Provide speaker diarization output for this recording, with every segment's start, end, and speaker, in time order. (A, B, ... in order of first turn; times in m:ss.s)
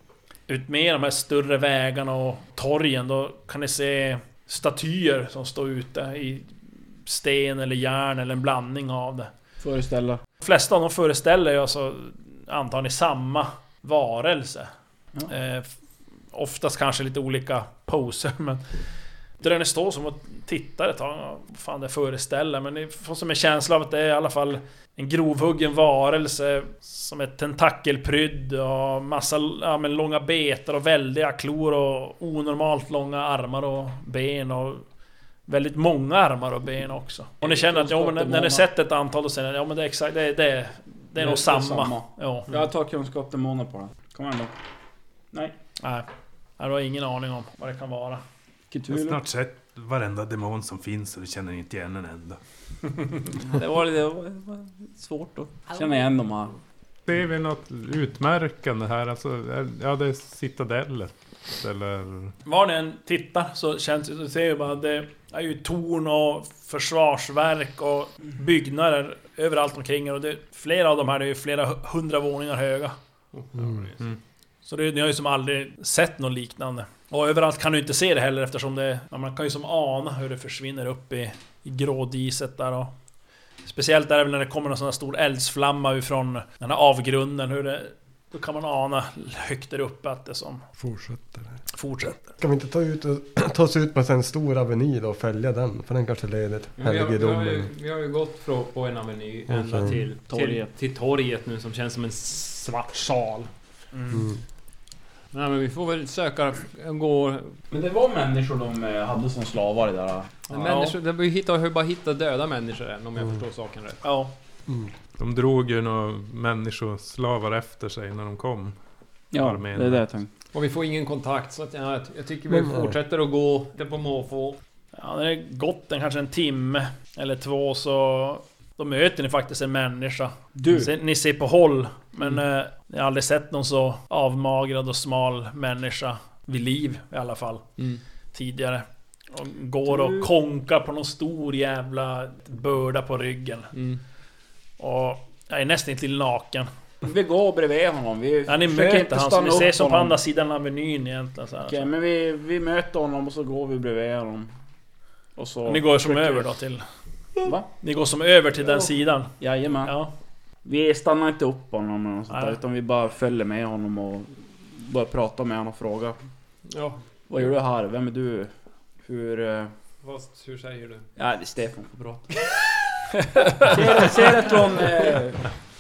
0:00.5-0:09.3 A
0:09.6-0:10.2 B
0:10.4-0:14.7 A
0:15.3-0:15.7 A
0:16.3-0:18.6 A
0:19.4-0:34.8 A
0:35.5-0:42.5 A
0:37.4-0:38.6 B
0:41.2-0:44.5 B
0:45.8-0:46.1 A
0:46.6-0:48.2 A
0:48.7-0:49.2 B
0:48.9-0:52.4 C
0:53.3-0:56.6 B
0:57.1-1:02.3 C
1:02.4-1:13.0 A
1:13.4-1:13.8 D
1:14.6-1:22.9 A
1:23.7-1:30.6 A
1:30.8-1:31.6 E
1:31.7-1:32.2 A
1:32.4-1:37.7 E
1:36.8-1:43.5 D
1:39.5-1:40.0 E
1:40.3-1:40.7 B
1:43.9-1:44.2 A
1:44.1-1:44.4 E
1:45.3-1:47.6 D
1:47.7-1:50.4 B
1:50.5-1:54.0 D
1:50.5-1:51.0 A
1:54.0-1:54.3 A
1:55.2-1:58.8 C
1:59.3-2:00.3 B
1:59.4-2:00.0 C
2:00.5-2:04.6 D
2:02.5-2:03.0 E
2:05.0-2:17.6 A
2:10.6-2:10.9 B
2:18.3-2:23.7 A
2:19.9-2:20.3 B
2:23.7-2:24.0 D
2:24.8-2:26.7 A
2:27.0-2:30.2 B
2:28.5-2:31.9 A
2:31.7-2:34.5 B
2:35.4-2:36.5 B
2:35.7-2:36.8 A
2:37.8-2:39.3 A
2:39.4-2:39.9 B
2:39.8-2:40.1 A
2:40.6-2:46.2 B
2:42.3-2:42.6 A
2:46.7-2:47.0 D
2:47.3-2:48.5 B
2:49.0-2:49.7 B
2:50.0-2:51.1 D
2:51.2-2:52.7 B
2:53.3-2:53.7 A
2:53.5-2:55.5 B
2:53.7-2:55.1 D